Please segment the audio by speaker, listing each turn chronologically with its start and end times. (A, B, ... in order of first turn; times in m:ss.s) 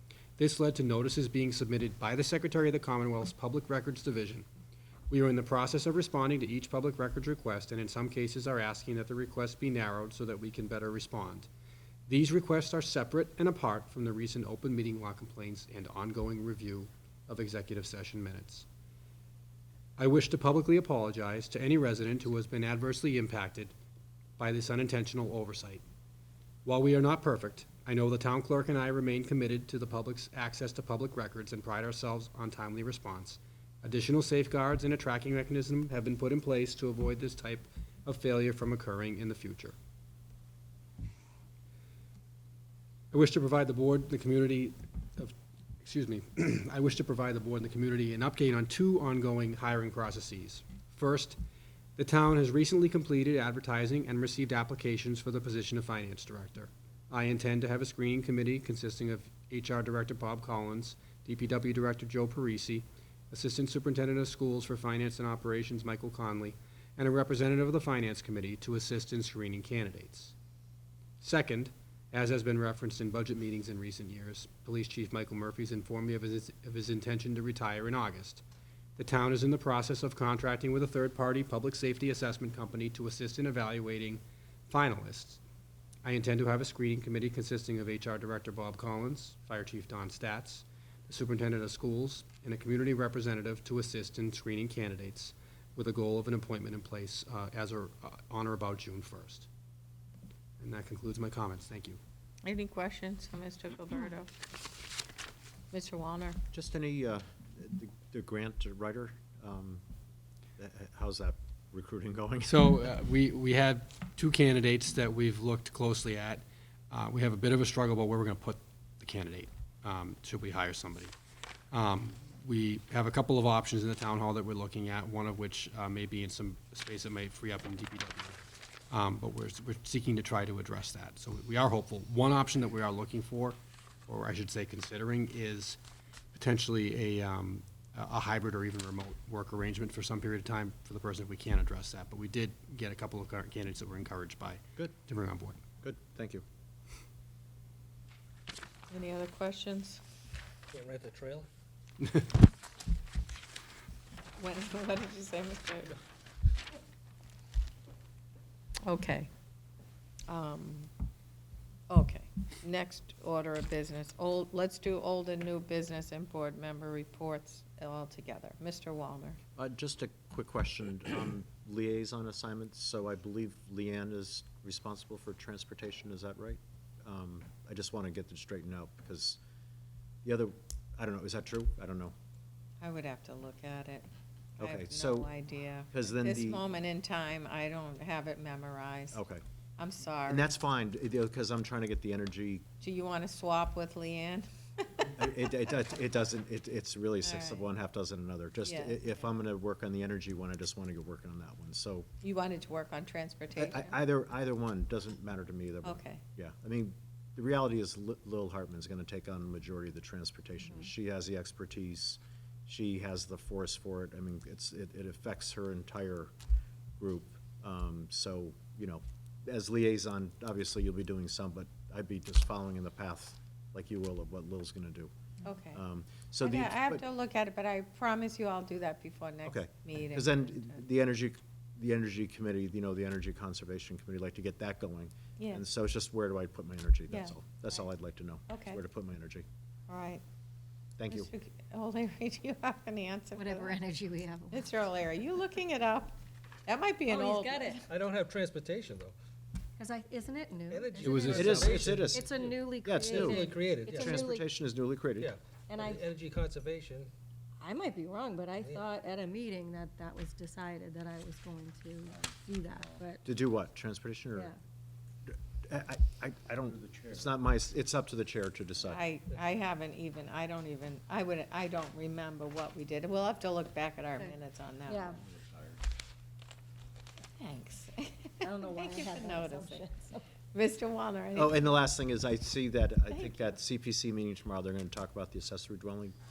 0:00.4-0:04.5 A
0:05.1-0:11.5 A
0:12.1-0:18.7 A
0:20.0-0:23.7 A
0:24.4-0:25.8 A
0:26.6-0:39.8 A
0:43.1-0:51.4 A
0:52.0-1:10.3 A
1:11.2-1:18.4 A
1:19.0-1:25.4 A
1:26.0-1:39.5 A
1:40.6-1:42.0 A
1:42.4-1:44.3 B
1:45.7-1:46.4 B
1:46.5-1:49.8 C
1:50.6-1:52.6 C
1:52.4-2:01.1 A
2:01.7-2:15.8 A
2:16.3-2:25.6 A
2:25.8-2:26.4 C
2:28.9-2:30.0 B
2:30.7-2:31.5 D
2:34.4-2:36.0 B
2:38.8-2:39.3 B
2:40.3-2:40.9 B
2:41.9-2:49.4 B
2:49.6-2:59.4 C
3:00.2-3:02.2 C
3:02.8-3:04.1 B
3:04.6-3:05.3 C
3:04.6-3:09.2 B
3:05.9-3:06.6 C
3:09.1-3:09.4 C
3:09.8-3:10.5 B
3:10.3-3:12.6 C
3:12.8-3:15.2 B
3:15.2-3:22.1 C
3:17.2-3:17.7 B
3:18.6-3:19.2 B
3:22.2-3:24.0 B
3:23.6-3:36.3 C
3:25.8-3:26.2 B
3:37.0-3:45.1 C
3:45.4-3:45.8 B
3:45.7-3:47.0 C
3:46.4-3:50.8 B
3:49.4-3:59.4 C
3:55.4-3:55.6 B
3:57.1-3:57.9 B
3:58.5-3:58.8 B
3:59.9-4:00.2 B
4:01.0-4:01.3 C
4:01.1-4:03.8 B
4:03.4-4:04.7 E
4:04.5-4:06.1 B
4:06.7-4:07.8 B
4:07.1-4:07.8 E
4:07.9-4:09.1 D
4:09.8-4:14.5 E
4:10.7-4:14.3 D
4:11.0-4:15.3 C
4:15.2-4:17.1 D
4:15.7-4:16.0 E
4:17.6-4:23.2 E
4:18.6-4:18.8 D
4:23.2-4:24.5 C
4:25.3-4:29.0 C
4:28.8-4:35.2 B
4:34.9-4:35.2 E
4:37.4-4:39.9 B
4:38.4-4:40.2 E
4:40.5-4:41.8 B
4:41.4-4:46.1 C
4:43.1-4:43.6 B